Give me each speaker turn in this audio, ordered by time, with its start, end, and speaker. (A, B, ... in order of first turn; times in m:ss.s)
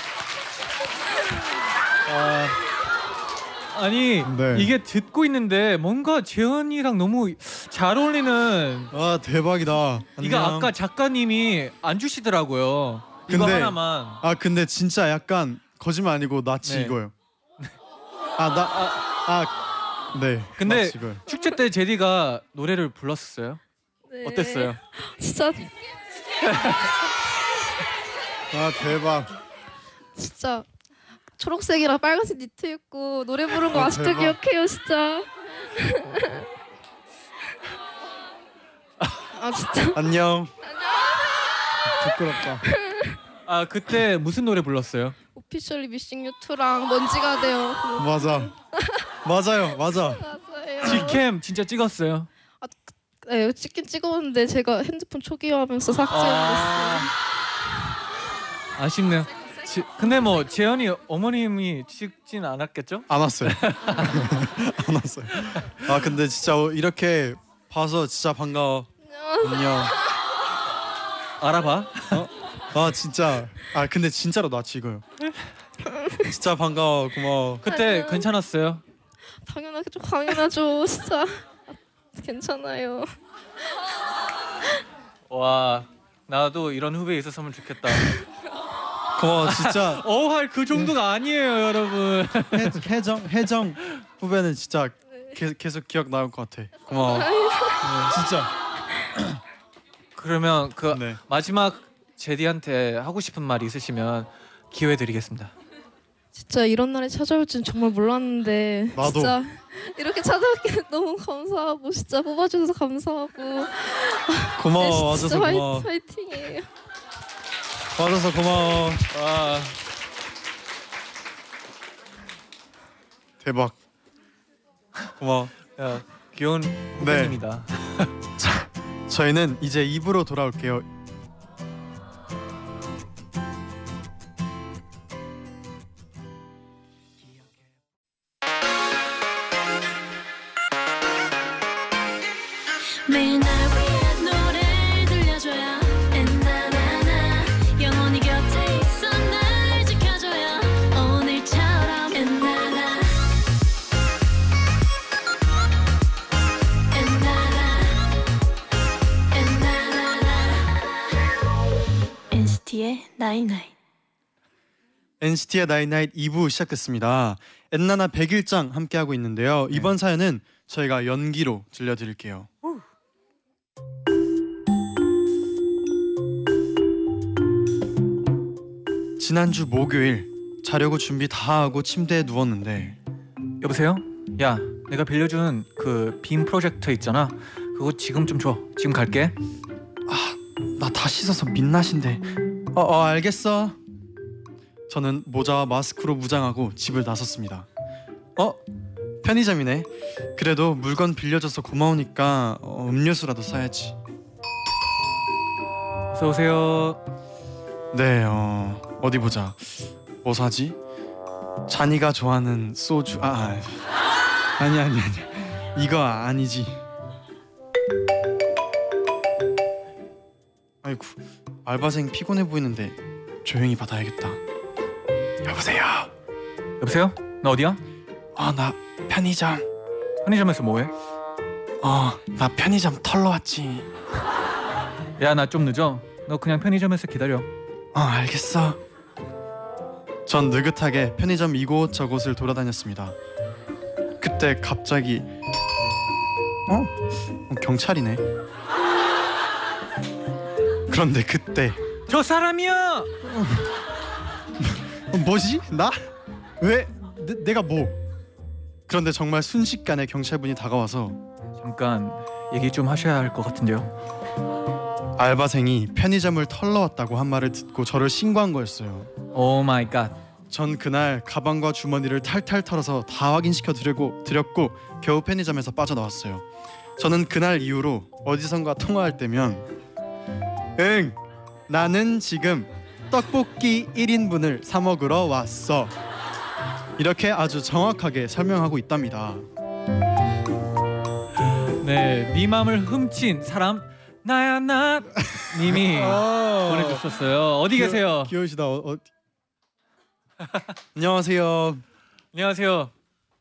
0:02.1-0:02.6 A
0:03.7-0:08.9 A
0:04.2-0:04.7 B
0:08.9-0:10.7 B
0:10.2-0:14.2 A
0:13.3-0:17.1 B
0:16.6-0:17.0 A
0:18.4-0:19.6 B
0:20.1-0:21.2 B
0:20.6-0:23.6 A
0:24.1-0:25.7 C
0:24.2-0:24.8 A
0:26.4-0:26.9 A
0:28.5-0:29.3 B
0:30.2-0:30.7 C
0:31.4-0:36.5 C
0:33.7-0:34.4 B
0:39.4-0:40.0 C
0:40.0-0:40.5 B
0:40.7-0:41.2 C
0:41.9-0:42.7 B
0:42.6-0:43.2 C
0:43.5-0:45.2 A
0:45.3-0:49.1 C
0:48.0-0:48.5 B
0:49.2-0:50.3 B
0:49.9-0:51.2 C
0:50.8-0:52.3 A
0:50.8-0:51.1 B
0:52.6-0:57.1 C
0:56.1-0:57.1 A
0:58.8-1:04.3 A
1:03.1-1:08.9 B
1:05.5-1:05.8 A
1:09.1-1:10.1 C
1:09.4-1:10.0 B
1:11.4-1:12.3 A
1:12.1-1:15.1 B
1:15.9-1:16.2 C
1:16.2-1:17.6 B
1:17.6-1:18.8 A
1:17.7-1:18.3 C
1:19.4-1:21.5 C
1:22.1-1:23.1 C
1:25.3-1:28.2 A
1:29.2-1:30.0 B
1:29.4-1:32.8 A
1:32.5-1:37.3 B
1:36.9-1:37.8 C
1:37.8-1:38.1 A
1:38.1-1:38.5 B
1:40.2-1:45.5 A
1:40.9-1:41.2 B
1:46.4-1:56.7 C
1:49.0-1:49.4 B
1:54.6-1:55.9 B
1:58.0-1:59.1 B
1:59.1-1:59.8 A
2:03.4-2:03.8 B
2:05.2-2:05.5 B
2:05.7-2:08.1 A
2:07.0-2:07.4 B
2:08.4-2:10.9 B
2:23.1-2:33.3 D
2:36.9-2:38.1 D
2:39.3-2:40.8 D
2:42.3-2:43.7 D
2:45.2-2:52.5 B
2:59.2-3:03.0 B
3:03.6-3:09.4 A
3:10.1-3:13.8 B
3:14.9-3:17.7 B
3:18.4-3:18.6 B
3:19.2-3:24.0 B
3:26.1-3:27.0 A
3:27.9-3:30.8 B
3:31.7-3:33.9 B
3:34.6-3:36.8 B
3:40.8-3:44.4 B
3:45.4-3:46.1 B
3:46.8-3:47.8 A
3:48.4-3:49.6 B
3:50.2-3:50.9 A
3:51.8-3:53.9 B
3:55.2-3:57.5 A
3:57.9-3:58.8 B
4:00.3-4:03.2 B
4:04.2-4:05.3 B
4:06.7-4:08.2 B
4:10.9-4:11.8 B
4:12.1-4:13.1 A
4:13.2-4:13.7 B
4:14.6-4:18.0 B
4:18.9-4:21.2 B
4:21.6-4:23.9 A
4:25.2-4:29.1 B
4:29.3-4:30.2 A
4:30.5-4:36.4 B
4:37.0-4:39.7 B
4:40.8-4:46.0 B
4:47.0-4:49.5 B
4:51.8-4:58.3 A
4:55.6-4:57.0 B
4:57.7-4:59.1 B
5:01.0-5:01.8 B
5:02.3-5:02.9 A